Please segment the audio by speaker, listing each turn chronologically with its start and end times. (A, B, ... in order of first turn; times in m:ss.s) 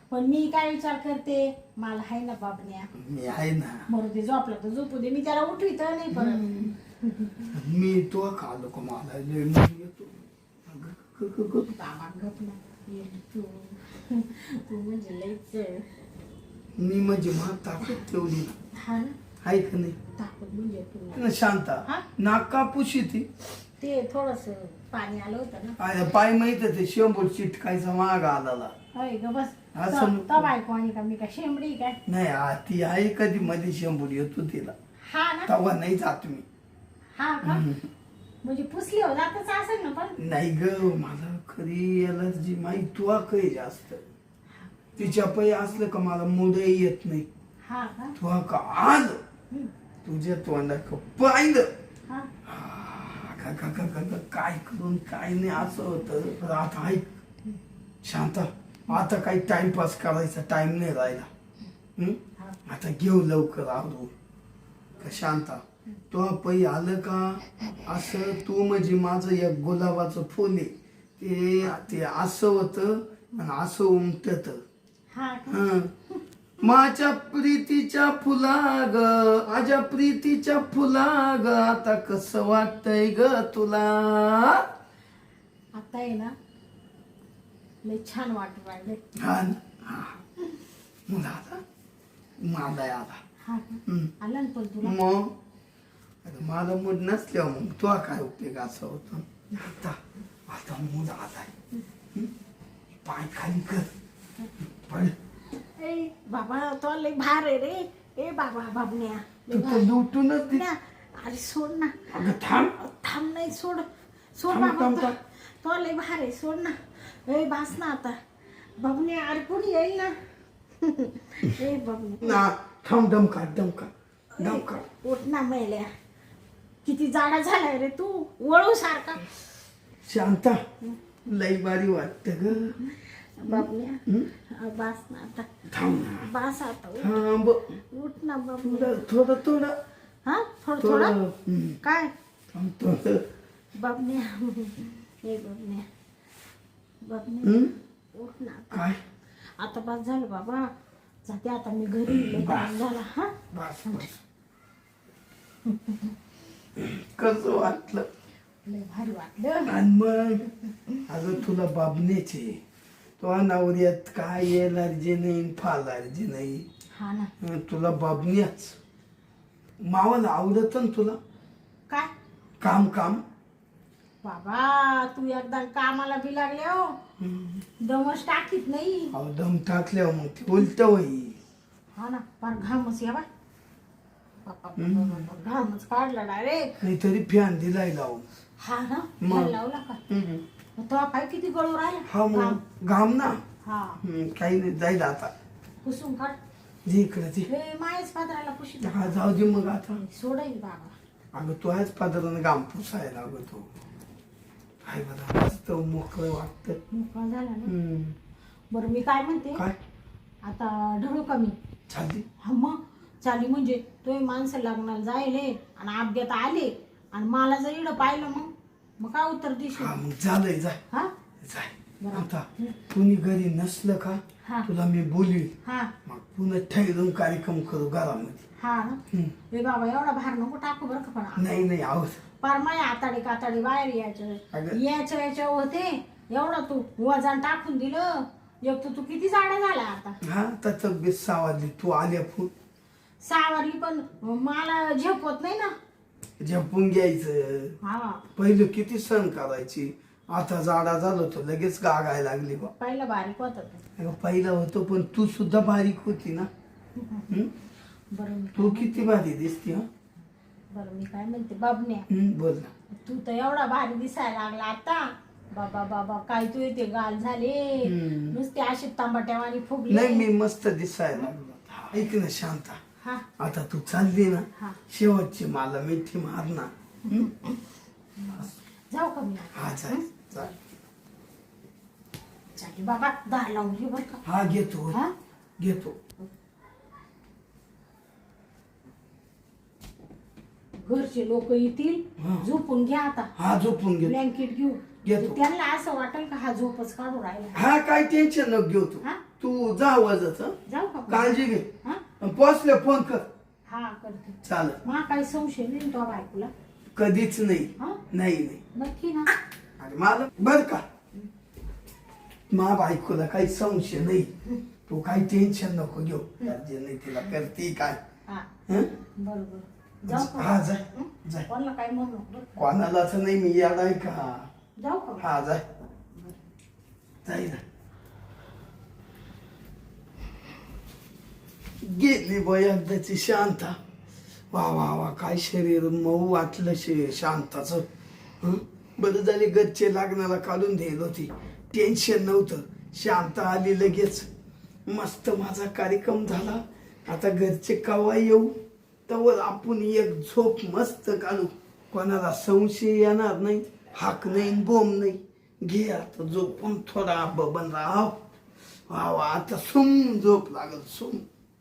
0:00.1-0:02.9 A
0:02.9-0:03.9 B
0:03.9-0:07.5 A
0:06.1-0:06.8 B
0:07.5-0:11.7 B
0:11.7-0:15.9 A
0:16.8-0:18.6 B
0:18.7-0:19.2 A
0:19.4-0:20.0 B
0:20.2-0:21.3 A
0:21.1-0:23.3 B
0:23.8-0:25.8 A
0:25.8-0:28.8 B
0:28.9-0:32.0 A
0:29.8-0:30.5 B
0:32.1-0:34.8 B
0:35.0-0:35.5 A
0:35.5-0:36.4 B
0:37.2-0:37.6 A
0:37.4-0:37.9 B
0:38.4-0:40.2 A
0:40.2-0:44.0 B
0:44.6-0:45.2 A
0:45.0-0:47.3 B
0:47.6-0:48.2 A
0:48.2-0:49.2 B
0:50.0-0:51.7 B
0:52.4-0:57.1 B
0:58.0-1:01.3 B
1:02.0-1:04.1 B
1:05.0-1:14.6 B
1:15.1-1:16.2 A
1:15.5-1:15.9 B
1:16.6-1:24.7 B
1:25.7-1:26.3 A
1:27.8-1:29.0 A
1:29.2-1:30.2 B
1:31.1-1:31.6 B
1:32.4-1:33.2 B
1:33.4-1:35.0 A
1:33.9-1:34.1 B
1:34.8-1:35.3 B
1:36.2-1:41.5 B
1:43.0-1:43.9 B
1:44.8-1:45.2 B
1:45.8-1:52.1 A
1:49.5-1:50.7 B
1:52.1-1:52.8 B
1:52.8-1:58.2 A
1:54.5-1:55.2 B
1:58.8-2:00.2 A
2:00.8-2:02.4 A
2:02.2-2:04.8 B
2:04.4-2:05.9 A
2:06.8-2:09.4 A
2:10.0-2:10.6 B
2:11.3-2:12.8 B
2:12.8-2:15.5 A
2:13.4-2:14.3 B
2:15.7-2:16.3 B
2:16.2-2:17.2 A
2:17.0-2:17.8 B
2:17.9-2:19.0 A
2:18.6-2:19.8 B
2:20.2-2:21.2 A
2:20.8-2:21.8 B
2:21.8-2:22.1 A
2:22.5-2:23.2 B
2:23.8-2:25.9 A
2:27.0-2:29.0 A
2:27.4-2:27.7 B
2:28.7-2:29.0 B
2:29.6-2:30.7 A
2:31.2-2:34.1 A
2:32.1-2:32.8 B
2:33.5-2:34.1 B
2:35.6-2:36.2 A
2:36.8-2:38.1 B
2:38.6-2:39.8 A
2:39.7-2:40.5 B
2:40.7-2:41.0 A
2:41.1-2:42.6 B
2:43.2-2:46.7 B
2:46.9-2:47.3 A
2:47.4-2:48.8 B
2:49.8-2:51.2 B
2:52.6-2:53.2 B
2:54.2-2:57.0 A
2:57.2-2:57.6 B
2:57.8-2:59.2 A
2:59.1-3:01.4 B
3:02.0-3:03.3 A
3:04.4-3:06.8 A
3:04.8-3:05.3 B
3:06.8-3:08.3 B
3:08.6-3:10.0 A
3:09.2-3:09.6 B
3:10.1-3:10.4 B
3:10.8-3:12.6 A
3:12.1-3:13.4 B
3:13.6-3:14.0 A
3:14.0-3:15.3 B
3:15.8-3:16.4 A
3:16.8-3:17.5 B
3:17.5-3:19.4 A
3:18.8-3:20.0 B
3:19.9-3:20.9 A
3:21.3-3:23.7 B
3:24.8-3:26.8 B
3:26.9-3:27.7 A
3:27.6-3:28.2 B
3:28.7-3:29.6 A
3:30.4-3:31.6 A
3:31.9-3:32.3 B
3:32.4-3:40.0 A
3:39.7-3:40.8 B
3:41.4-3:45.5 B
3:42.0-3:42.8 A
3:44.4-3:44.7 A
3:45.6-3:45.9 A
3:46.0-3:48.4 B
3:48.6-3:51.6 A
3:51.4-3:52.2 B
3:52.4-4:00.2 A
3:54.5-3:54.8 B
4:00.2-4:02.5 B
4:03.2-4:05.7 A
4:06.4-4:07.8 B
4:07.8-4:08.2 A
4:08.3-4:12.7 B
4:12.8-4:13.8 A
4:14.0-4:16.5 B
4:17.0-4:17.3 A
4:18.1-4:19.2 A
4:18.6-4:19.9 B
4:20.7-4:22.1 A
4:22.1-4:22.7 B
4:23.0-4:30.3 A
4:27.8-4:28.4 B
4:29.9-4:32.8 B
4:33.0-4:33.3 A
4:33.4-4:37.3 B
4:37.1-4:40.6 A
4:39.5-4:40.5 B
4:42.6-4:44.2 A
4:44.2-4:45.0 B
4:45.6-4:46.0 B
4:50.8-4:53.3 A
4:52.2-4:52.5 B
4:53.4-4:54.2 B
4:54.0-4:57.6 A
4:55.0-4:55.4 B
4:57.5-5:00.6 B
5:00.7-5:02.0 A
5:01.1-5:01.7 B
5:02.2-5:03.3 B
5:03.7-5:06.5 A
5:04.4-5:04.8 B
5:06.9-5:08.6 B
5:08.7-5:09.4 A
5:09.8-5:10.9 B
5:12.5-5:14.3 B
5:14.9-5:18.0 B
5:19.2-5:22.6 A
5:20.1-5:21.5 B
5:22.6-5:24.5 B
5:24.8-5:25.3 A
5:25.2-5:25.7 B
5:26.1-5:26.4 A
5:27.2-5:27.6 B
5:31.8-5:33.8 B
5:34.5-5:37.9 B
5:38.4-5:44.3 B
5:44.9-5:58.2 B
5:58.9-6:01.3 B